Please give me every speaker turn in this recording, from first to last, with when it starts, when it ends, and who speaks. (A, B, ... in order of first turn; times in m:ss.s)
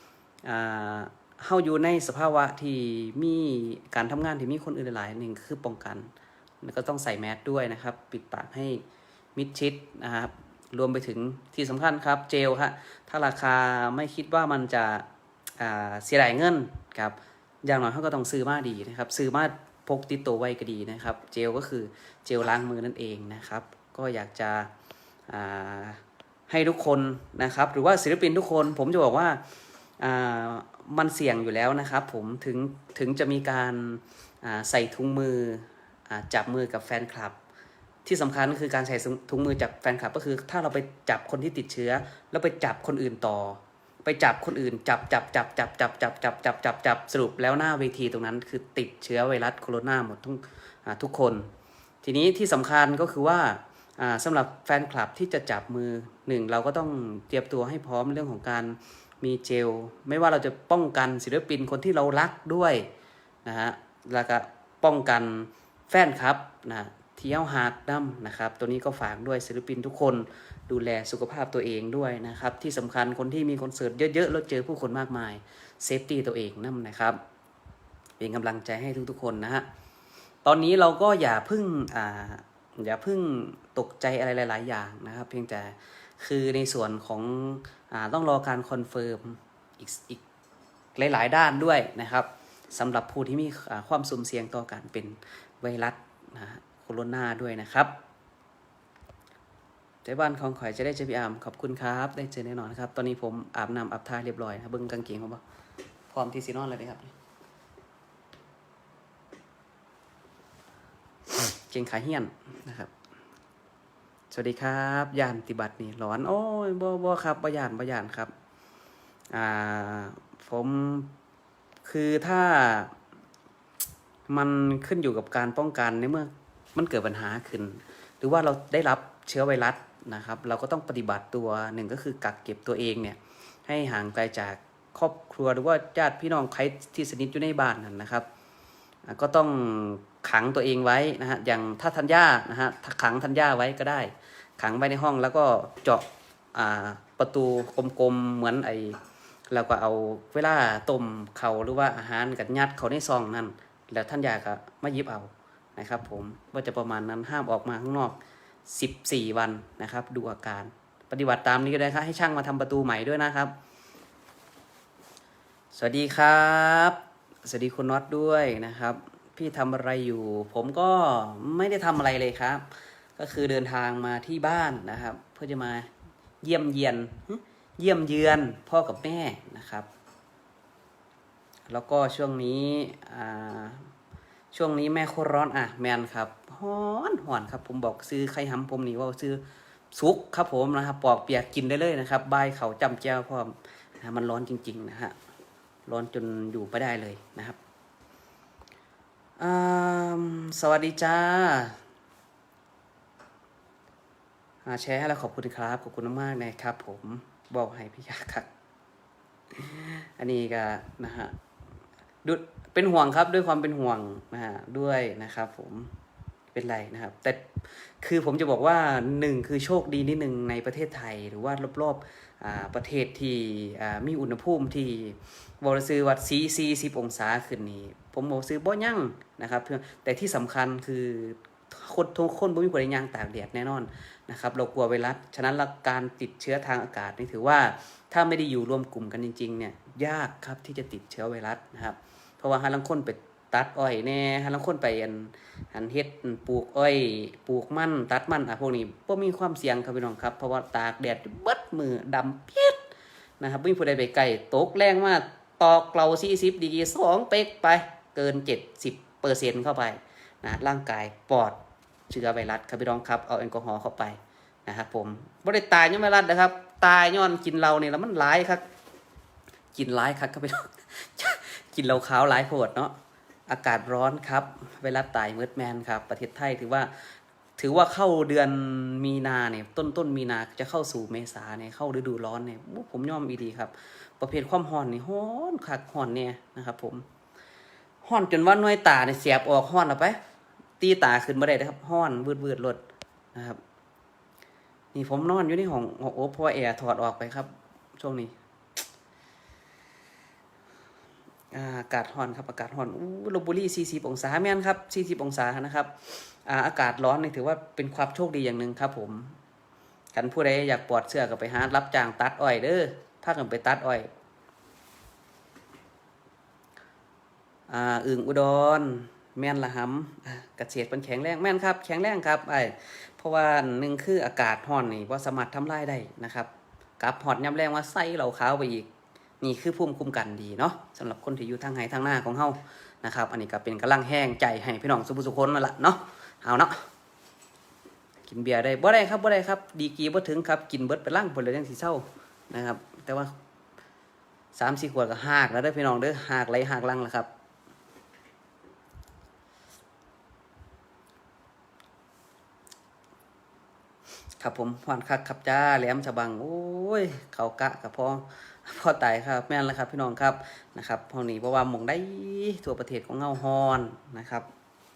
0:00.4-0:06.1 A
0:06.6-0:08.8 A
0:09.3-0:15.0 A
0:15.6-0:24.7 A
0:25.3-0:29.4 A
0:30.0-0:37.4 A
0:38.0-0:51.5 A
0:52.0-1:02.8 A
1:03.4-1:17.2 A
1:18.2-1:19.6 A
1:20.4-1:30.2 A
1:30.9-1:37.9 A
1:40.0-1:45.4 A
1:46.1-1:47.1 A
1:51.6-1:52.9 A
1:54.3-1:58.3 A
1:59.3-2:01.1 A
2:01.8-2:02.9 A
2:04.3-2:18.2 A
2:19.1-2:29.0 A
2:29.5-2:43.5 A
2:45.7-2:55.9 A
2:56.4-2:59.9 A
3:01.7-3:03.9 A
3:04.5-3:09.4 A
3:09.9-3:15.1 A
3:15.9-3:17.6 A
3:19.4-3:21.8 A
3:24.6-3:28.5 A
3:29.5-3:31.3 A
3:32.2-3:35.9 A
3:36.5-4:12.8 A
4:13.4-4:28.6 A
4:29.7-4:32.9 A
4:33.5-4:36.9 A
4:37.6-4:47.0 A
4:48.0-4:50.2 A
4:50.8-4:52.8 A
4:53.3-4:53.6 A
4:54.9-4:58.3 A
5:01.5-5:09.4 A
5:10.1-5:14.1 A
5:17.7-5:28.9 A
5:29.4-5:36.8 A
5:38.2-5:43.3 A
5:44.5-5:47.3 A
5:54.4-6:04.5 A